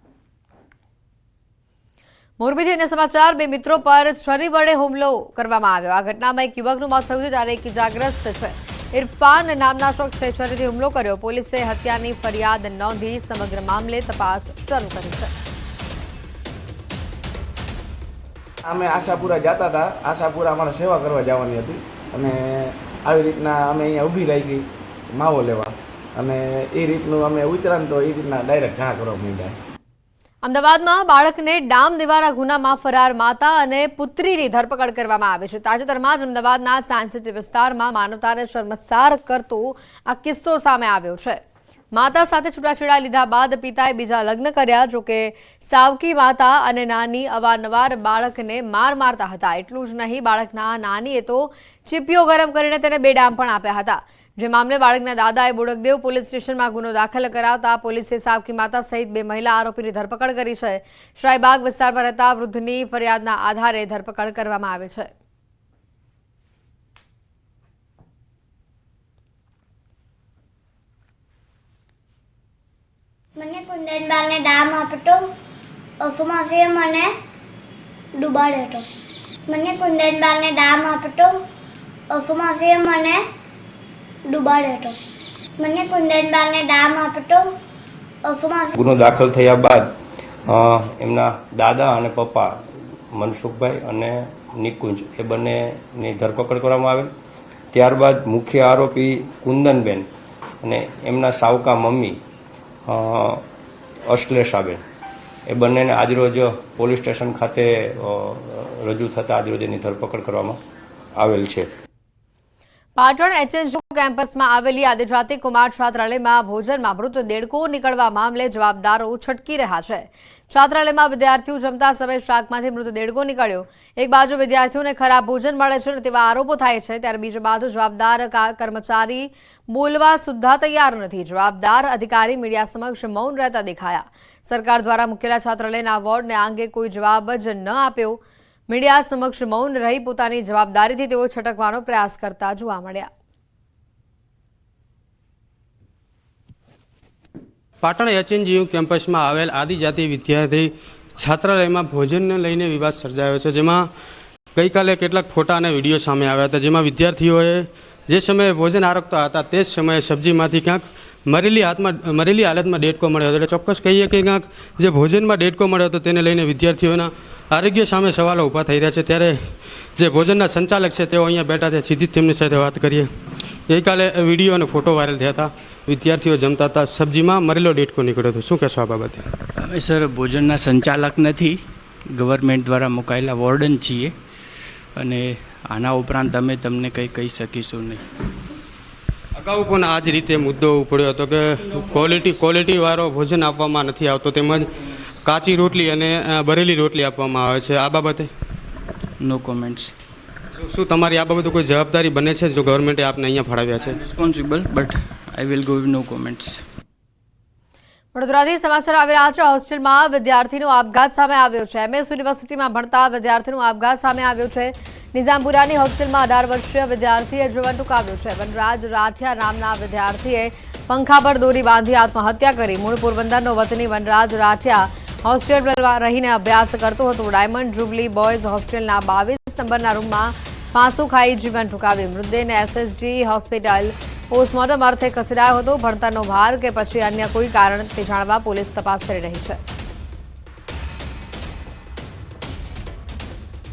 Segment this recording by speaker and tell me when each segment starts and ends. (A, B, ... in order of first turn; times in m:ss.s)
0:02.4-0:15.3 A
0:18.7-0:29.5 B
0:30.4-0:41.4 A
0:41.9-1:05.1 A
1:13.4-1:15.3 C
1:16.0-1:17.1 C
1:18.2-1:18.8 C
1:19.5-1:21.4 C
1:22.1-1:23.2 C
1:24.3-1:24.9 C
1:25.6-1:27.5 C
1:28.2-1:28.8 C
1:28.8-1:37.1 D
1:37.7-1:40.1 D
1:40.6-1:42.2 D
1:42.8-1:43.4 D
1:44.0-1:44.8 D
1:45.5-1:50.6 D
1:51.1-1:51.7 D
1:53.0-2:23.1 A
2:27.8-2:33.9 E
2:34.6-2:53.1 E
2:53.7-2:59.3 E
2:59.6-3:01.6 F
3:02.1-3:04.2 F
3:05.0-3:08.1 F
3:09.4-3:14.7 E
3:15.2-3:18.3 E
3:19.2-3:19.9 F
3:20.6-3:24.0 E
3:23.9-3:26.6 F
3:28.1-3:59.6 A